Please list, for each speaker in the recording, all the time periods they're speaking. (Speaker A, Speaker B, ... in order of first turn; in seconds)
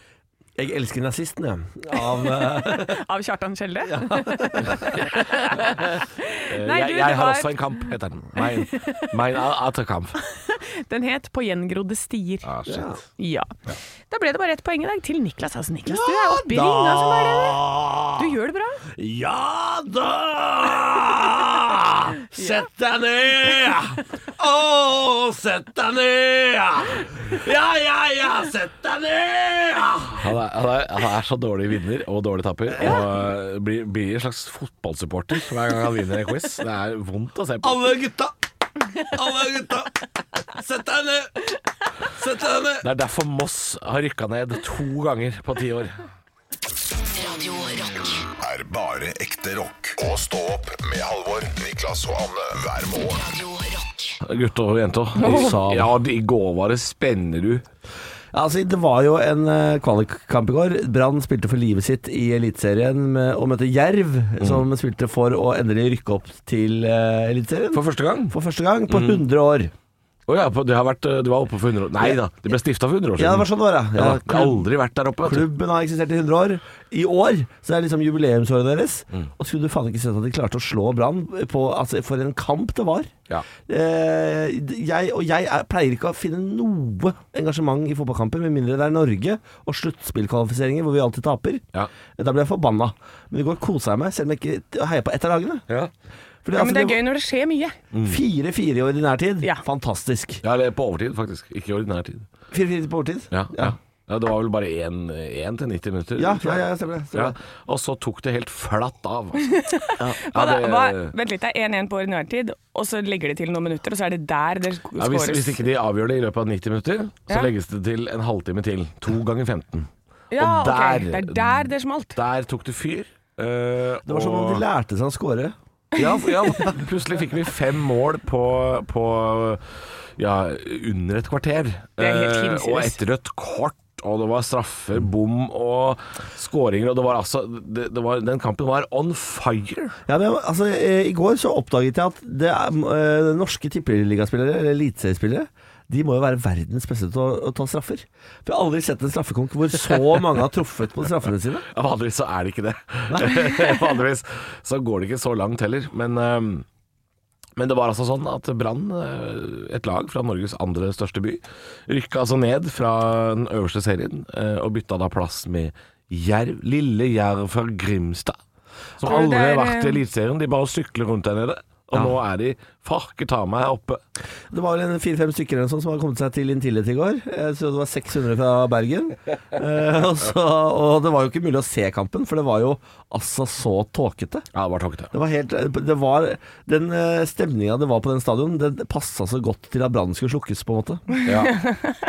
Speaker A: 0.6-3.0, 3.9-4.9, 12.7-13.0, 15.9-18.3, 18.9-30.3, 32.7-33.0, 37.6-38.3, 39.0-41.5, 42.1-42.9, 55.2-55.9, 58.3-69.7, 73.2-74.7, 75.2-91.6, 92.2-95.6, 96.4-97.0, 98.0-100.4, 102.5-103.8, 106.2-107.3, 124.0-125.5, 140.1-151.7, 153.1-153.8, 174.5-184.5, 185.1-191.0
Speaker B: 1.9-7.6, 8.3-9.1, 10.2-12.5, 13.2-13.5, 14.1-17.6, 18.1-18.8, 96.5-97.8, 109.4-115.6, 120.3-122.2, 132.0-132.9, 169.0-170.0
Speaker C: 4.7-10.2, 12.4-12.9, 30.2-37.9, 42.8-46.0, 54.2-57.6, 67.7-68.3, 68.9-69.2, 70.3-75.5, 97.9-98.2, 100.4-102.2, 103.3-111.1, 115.0-124.6, 126.0-129.6, 130.2-139.9, 151.7-156.6, 157.6-168.4, 169.0-174.0, 184.5-185.1, 191.2-191.6
Speaker D: 47.0-48.3, 53.1-54.2
Speaker E: 48.4-53.4